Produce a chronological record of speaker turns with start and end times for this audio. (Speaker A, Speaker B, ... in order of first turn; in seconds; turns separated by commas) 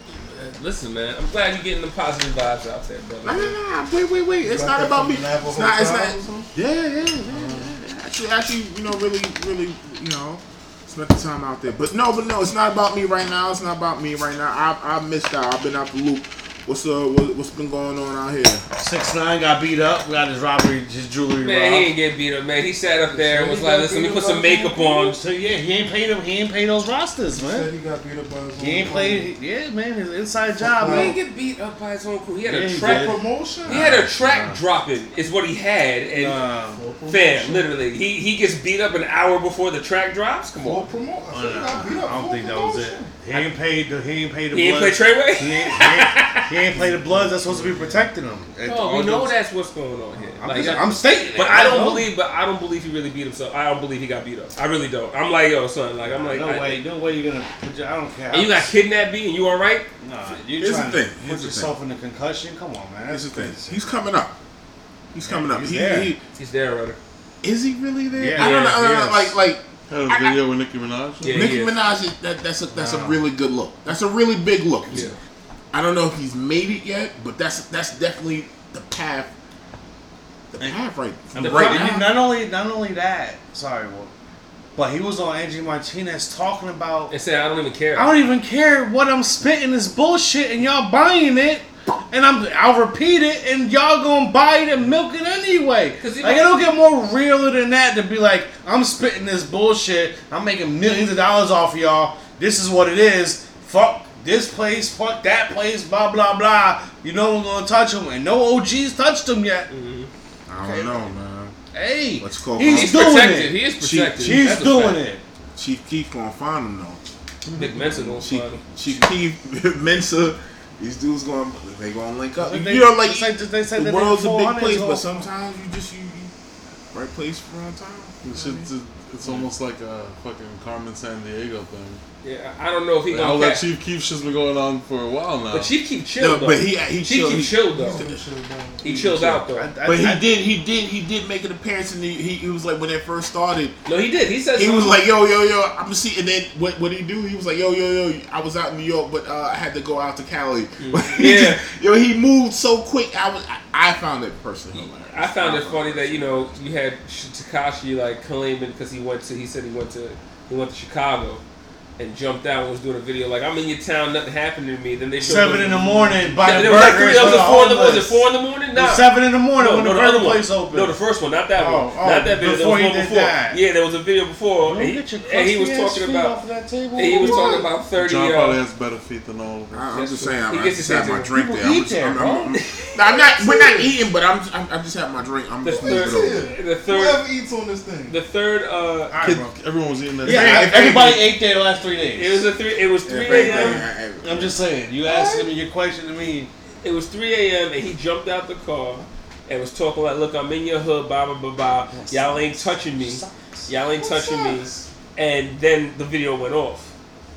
Speaker A: 0.1-3.6, Speaker B: 3.2-18.6, Speaker C: 4.4-6.5, Speaker C: 7.3-7.7, Speaker D: 18.8-21.9, Speaker A: 21.4-25.2, Speaker C: 23.1-25.1, Speaker D: 25.1-27.7, Speaker C: 27.4-29.3, Speaker D: 28.6-31.2, Speaker C: 30.6-31.2, Speaker A: 30.8-36.4, Speaker D: 32.5-34.6, Speaker C: 32.8-34.0, Speaker D: 36.1-36.8, Speaker C: 36.6-37.8, Speaker A: 37.1-40.9, Speaker C: 40.6-43.1, Speaker D: 41.3-49.4, Speaker A: 44.5-46.5, Speaker A: 48.6-56.8, Speaker D: 50.4-52.1, Speaker D: 56.0-58.7, Speaker A: 58.3-59.9, Speaker D: 60.0-63.9, Speaker B: 60.6-61.7, Speaker B: 63.1-64.4, Speaker B: 65.1-66.2, Speaker D: 65.2-66.1, Speaker A: 66.4-67.0, Speaker B: 67.4-70.4, Speaker D: 68.2-69.4, Speaker A: 68.4-68.8, Speaker E: 69.9-71.5, Speaker A: 71.2-71.8, Speaker B: 71.2-75.1, Speaker D: 72.7-73.3, Speaker A: 74.9-75.2, Speaker B: 75.7-79.3, Speaker B: 80.5-82.1, Speaker A: 81.4-82.0, Speaker D: 81.4-84.1, Speaker D: 84.8-87.2, Speaker A: 87.1-88.2, Speaker D: 88.0-109.7, Speaker A: 96.0-96.7, Speaker A: 109.7-110.1, Speaker B: 110.5-111.5, Speaker D: 110.6-111.1, Speaker D: 111.7-113.6, Speaker B: 112.2-113.1, Speaker A: 112.7-115.1, Speaker B: 113.8-114.7, Speaker D: 114.2-115.2, Speaker B: 115.6-117.0, Speaker D: 117.5-118.0, Speaker A: 117.6-119.1, Speaker B: 118.1-126.3, Speaker D: 122.4-125.3, Speaker B: 126.9-128.2, Speaker E: 128.2-132.0, Speaker C: 128.3-128.7, Speaker A: 132.2-133.6, Speaker E: 133.1-135.7, Speaker A: 135.5-138.0, Speaker B: 136.2-138.2, Speaker C: 137.7-139.4, Speaker A: 138.8-139.7, Speaker D: 139.2-140.3, Speaker B: 139.8-143.8, Speaker A: 143.9-145.0, Speaker B: 144.6-156.7, Speaker A: 150.8-151.6, Speaker A: 154.7-161.4, Speaker A: 162.0-176.4, Speaker D: 165.2-170.9, Speaker E: 165.6-166.1, Speaker D: 171.6-173.6, Speaker D: 174.6-177.5, Speaker A: 177.0-178.6, Speaker C: 177.2-177.7, Speaker E: 177.9-179.9, Speaker B: 179.7-186.5, Speaker A: 179.9-181.3, Speaker D: 181.3-182.5, Speaker A: 182.5-183.0, Speaker C: 183.1-183.9, Speaker A: 185.6-187.2, Speaker C: 185.7-188.2, Speaker A: 188.1-189.2, Speaker D: 189.1-189.5, Speaker E: 189.2-190.9, Speaker B: 190.2-191.2, Speaker D: 190.2-192.5, Speaker A: 192.2-193.8, Speaker B: 193.1-194.6, Speaker D: 193.3-196.5, Speaker C: 195.1-195.5, Speaker A: 196.8-206.9, Speaker D: 201.9-203.7, Speaker C: 204.0-204.9